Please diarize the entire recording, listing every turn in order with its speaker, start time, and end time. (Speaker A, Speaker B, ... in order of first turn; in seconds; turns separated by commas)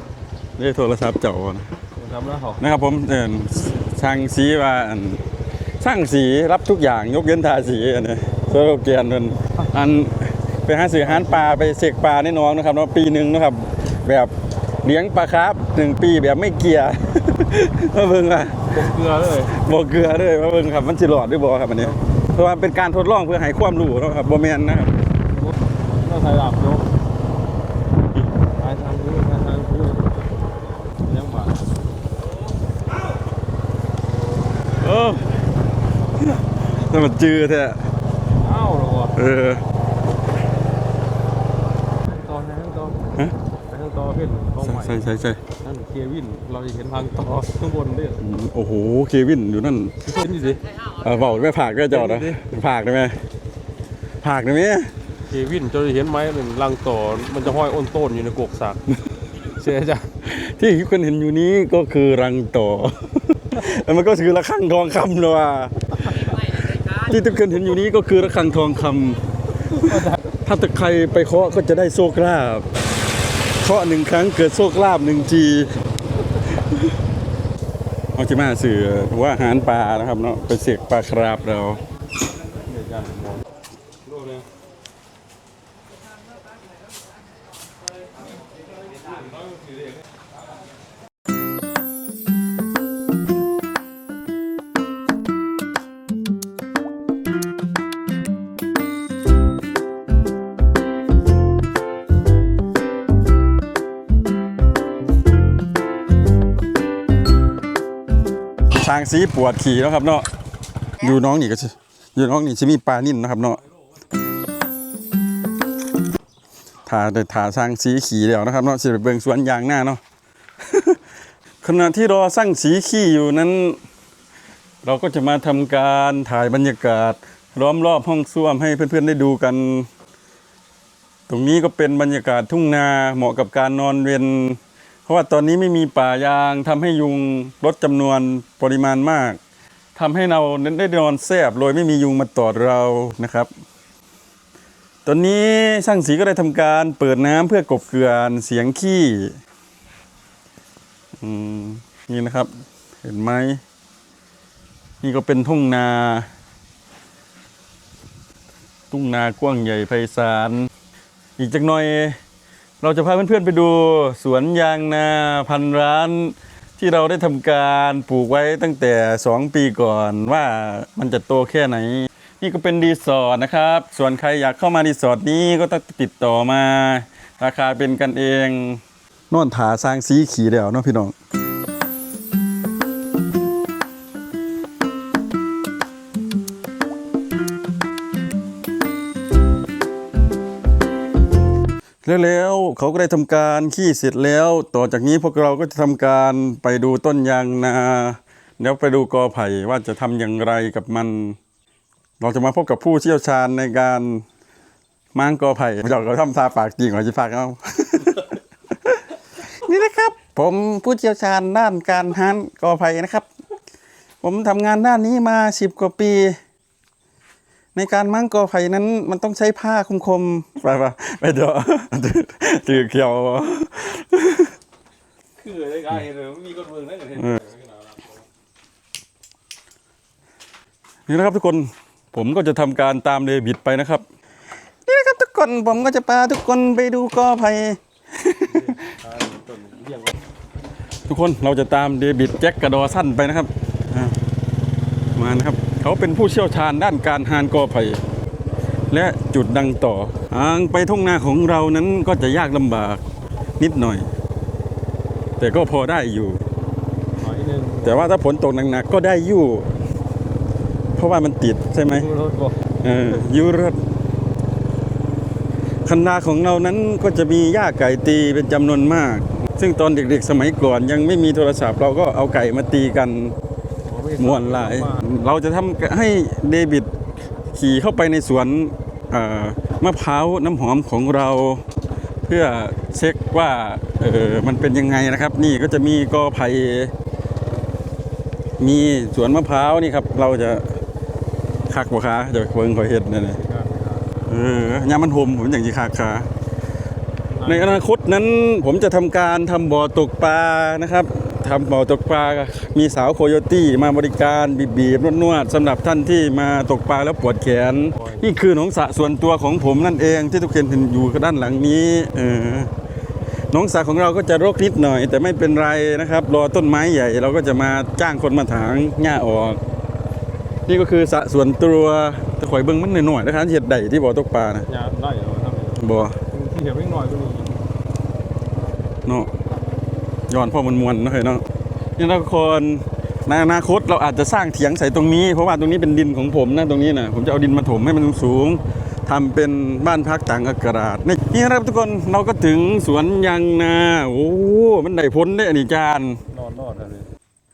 Speaker A: 0.6-1.7, Speaker B: 2.0-2.6, Speaker A: 2.6-5.2, Speaker A: 5.8-18.8, Speaker B: 11.0-11.5, Speaker B: 18.7-19.5, Speaker A: 19.5-24.9, Speaker B: 25.3-27.0, Speaker B: 28.6-30.3, Speaker B: 31.0-31.7, Speaker A: 34.7-35.4, Speaker A: 36.2-37.9, Speaker B: 38.4-39.1, Speaker A: 39.1-39.6, Speaker B: 42.0-43.2, Speaker B: 43.7-45.0, Speaker A: 44.6-45.4, Speaker B: 45.6-48.2, Speaker A: 48.2-50.0, Speaker B: 50.0-50.7, Speaker A: 50.8-53.2, Speaker B: 51.9-52.4, Speaker A: 54.2-54.9, Speaker B: 55.3-58.9, Speaker B: 59.4-60.1, Speaker A: 60.2-72.7, Speaker A: 73.6-75.7, Speaker A: 76.5-76.8, Speaker A: 78.2-81.8, Speaker B: 82.7-83.4, Speaker B: 84.1-84.4, Speaker A: 108.8-110.3, Speaker A: 111.0-113.6, Speaker A: 116.9-120.0, Speaker A: 120.7-121.0, Speaker A: 121.6-123.8, Speaker A: 124.8-129.9, Speaker A: 131.3-139.4, Speaker A: 139.9-143.5, Speaker A: 145.1-149.4, Speaker A: 151.2-152.5, Speaker A: 153.0-153.6, Speaker A: 155.0-156.3, Speaker A: 158.9-160.7, Speaker A: 161.4-162.2, Speaker A: 162.8-181.1, Speaker A: 192.0-201.4, Speaker A: 202.2-204.2, Speaker A: 205.2-213.3, Speaker A: 214.2-216.4, Speaker A: 217.8-224.6, Speaker B: 225.4-228.2, Speaker A: 227.2-227.4, Speaker A: 231.1-234.1, Speaker A: 234.8-238.9, Speaker B: 238.5-240.2, Speaker A: 241.1-244.2, Speaker A: 245.2-248.0, Speaker A: 248.9-253.0, Speaker A: 253.6-254.1, Speaker A: 255.4-256.4, Speaker B: 257.2-258.0, Speaker A: 257.8-259.7, Speaker A: 261.0-262.1, Speaker B: 261.9-262.6, Speaker A: 262.8-263.8, Speaker A: 265.9-273.4, Speaker B: 273.9-275.1, Speaker A: 274.2-276.9, Speaker A: 277.5-281.6, Speaker A: 282.3-286.9, Speaker A: 288.6-290.8, Speaker A: 291.7-293.4, Speaker B: 293.3-294.1, Speaker A: 294.2-296.3, Speaker B: 297.3-297.8, Speaker A: 297.5-312.7, Speaker A: 313.5-319.6, Speaker A: 320.7-324.7, Speaker B: 324.7-327.6, Speaker A: 325.8-326.2, Speaker A: 329.1-329.3, Speaker A: 330.3-331.4, Speaker A: 332.0-346.2, Speaker B: 346.3-347.1